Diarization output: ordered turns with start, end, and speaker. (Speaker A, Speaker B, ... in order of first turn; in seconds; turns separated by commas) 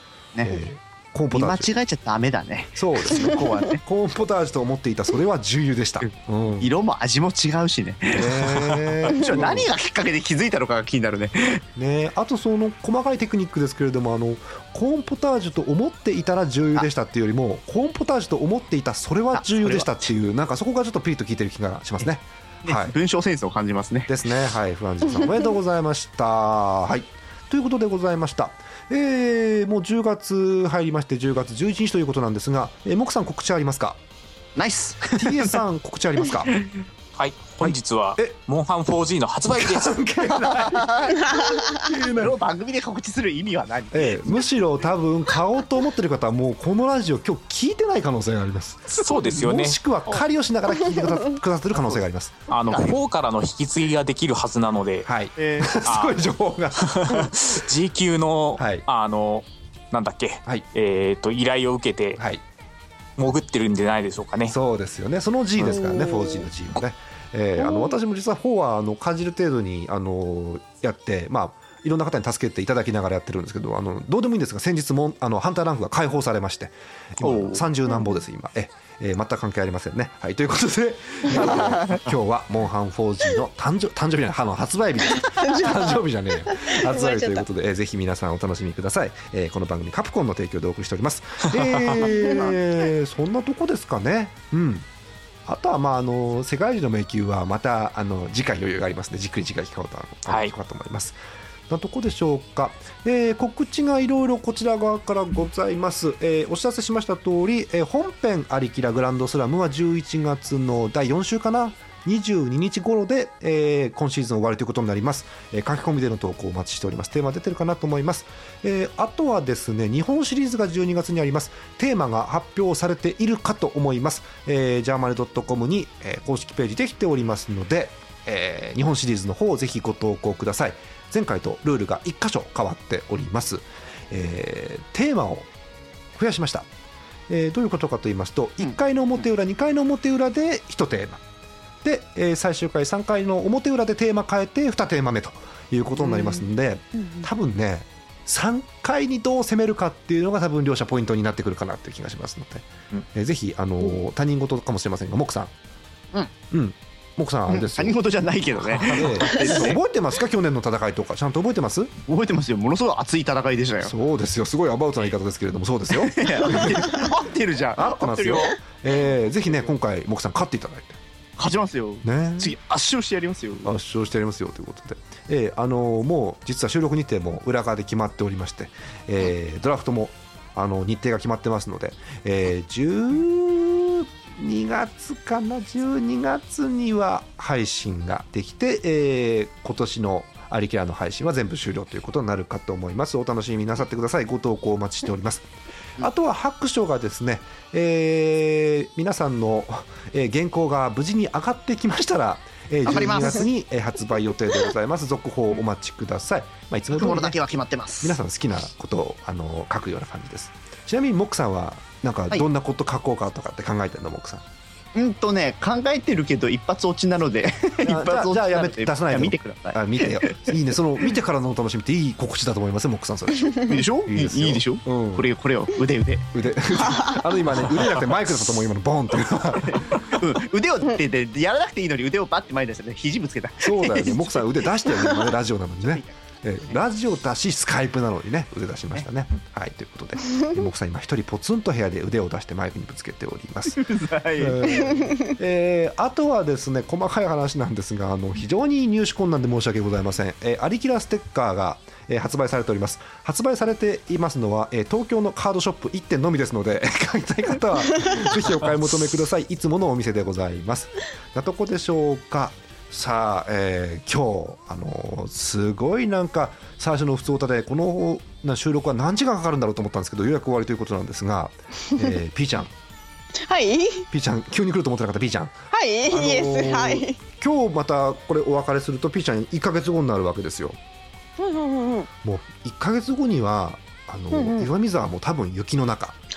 Speaker A: 0.3-0.6, Speaker B: 0.4-1.7, Speaker A: 1.3-3.8, Speaker B: 2.8-6.7, Speaker A: 6.6-11.6, Speaker B: 8.1-9.7, Speaker B: 11.8-22.9, Speaker A: 19.3-20.1, Speaker A: 22.6-24.1, Speaker B: 24.1-34.0, Speaker A: 34.6-35.6, Speaker B: 35.2-36.6, Speaker C: 37.1-39.9, Speaker B: 37.6-38.3, Speaker B: 39.5-40.9, Speaker A: 40.2-44.4, Speaker D: 41.3-41.8, Speaker B: 41.8-42.3, Speaker B: 43.9-52.4, Speaker C: 48.9-49.8, Speaker C: 52.5-55.1, Speaker A: 52.7-53.0, Speaker B: 55.0-57.0, Speaker A: 55.4-55.8, Speaker C: 55.9-62.2, Speaker B: 58.6-58.9, Speaker B: 62.2-62.4, Speaker C: 63.2-64.6, Speaker B: 64.5-94.9, Speaker D: 65.7-66.5, Speaker D: 67.7-67.9, Speaker C: 77.2-77.6, Speaker A: 81.4-82.0, Speaker D: 85.1-87.5, Speaker C: 91.6-91.8, Speaker B: 95.5-101.2, Speaker C: 100.3-100.5, Speaker B: 101.7-135.5, Speaker B: 136.2-136.7, Speaker B: 137.3-141.2, Speaker A: 138.6-139.2, Speaker B: 141.8-155.5, Speaker A: 146.0-146.4, Speaker B: 156.5-158.0, Speaker A: 157.5-159.8, Speaker B: 158.9-161.9, Speaker A: 162.1-163.9, Speaker B: 163.8-167.0, Speaker A: 165.9-168.6, Speaker B: 167.8-171.0, Speaker A: 171.4-173.7, Speaker B: 172.0-172.6, Speaker B: 173.6-195.5, Speaker B: 196.0-207.4, Speaker A: 202.8-203.5, Speaker A: 206.9-208.2, Speaker B: 208.0-214.4, Speaker A: 214.9-220.6, Speaker B: 217.8-225.3, Speaker A: 223.6-226.3, Speaker B: 226.3-229.8, Speaker A: 227.8-228.0, Speaker A: 229.4-235.2, Speaker B: 233.6-243.8, Speaker A: 235.8-236.1, Speaker A: 243.7-245.0, Speaker B: 244.4-272.7, Speaker D: 273.4-274.1, Speaker B: 274.1-275.5, Speaker D: 275.7-277.2, Speaker B: 276.1-280.8, Speaker D: 281.4-282.1, Speaker B: 282.2-286.2, Speaker D: 284.3-284.7